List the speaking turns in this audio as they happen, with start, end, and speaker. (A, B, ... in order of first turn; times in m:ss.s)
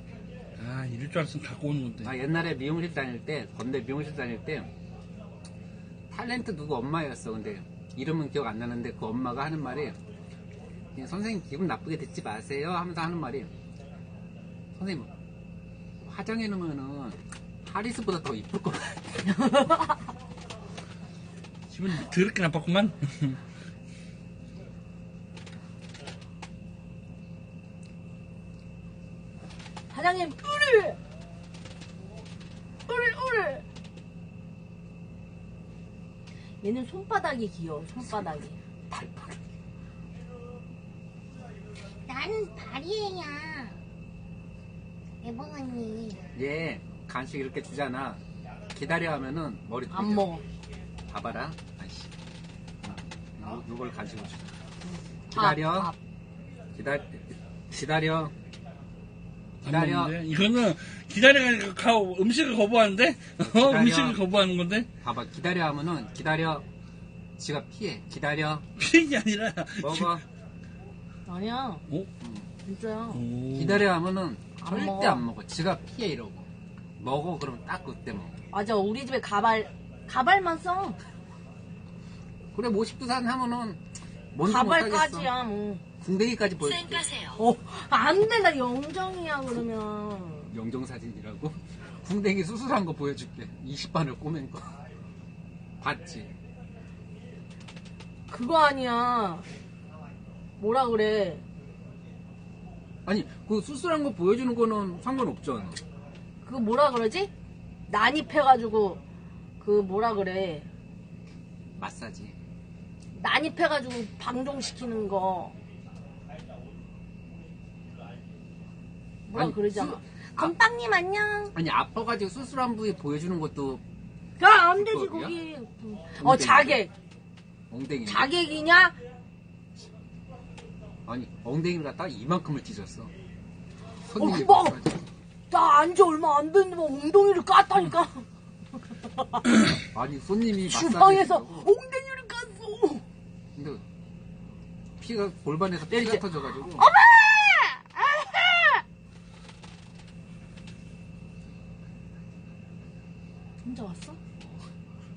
0:00.6-0:02.1 A
0:02.0-0:04.7 B
0:06.1-0:10.0 B
0:10.9-0:13.5 B
0:14.7-0:15.1 B
0:16.0-0:19.4 B
0:19.3-0:20.0 C
0:21.7-0:23.4 A
0:29.9-0:31.0 C
0:32.9-0:33.6 C
0:36.6-0:38.6 C
0:38.1-0:39.4 B
0:42.1-0:43.8 D
0:45.2-0:46.2 D
0:46.3-0:50.3 B
0:49.9-0:50.4 C
0:51.1-0:52.1 B
0:52.8-0:54.5 B
0:54.9-0:56.0 C
0:55.3-0:55.9 B
0:56.7-0:58.3 B
0:59.6-1:00.2 B
0:59.6-1:04.9 A
1:03.4-1:04.2 B
1:05.0-1:06.7 B
1:07.4-1:08.6 B
1:08.8-1:10.2 A
1:09.8-1:10.2 B
1:11.3-1:11.8 C
1:12.2-1:12.5 B
1:12.6-1:13.2 C
1:13.1-1:13.9 A
1:13.5-1:18.4 B
1:14.6-1:15.2 C
1:18.5-1:21.0 C
1:22.5-1:25.3 B
1:24.4-1:25.8 C
1:26.0-1:27.1 B
1:26.6-1:27.4 D
1:27.4-1:30.5 C
1:30.5-1:34.8 B
1:35.8-1:36.3 B
1:38.3-1:39.5 C
1:40.6-1:41.4 C
1:43.0-1:45.8 B
1:46.4-1:47.3 C
1:47.9-1:49.0 C
1:49.6-1:50.7 C
1:51.8-1:52.4 B
1:53.1-1:55.6 C
1:59.3-2:01.5 C
1:59.3-2:00.5 B
2:01.5-2:03.8 B
2:04.4-2:06.9 C
2:04.7-2:05.3 B
2:06.2-2:06.8 B
2:07.7-2:08.3 B
2:08.1-2:09.0 C
2:11.1-2:13.1 B
2:14.1-2:15.1 B
2:14.1-2:14.8 C
2:15.5-2:18.2 C
2:19.1-2:19.5 C
2:19.9-2:21.7 B
2:20.6-2:23.0 C
2:23.5-2:23.8 B
2:25.0-2:26.8 B
2:25.9-2:28.8 C
2:33.6-2:34.2 C
2:34.4-2:34.7 B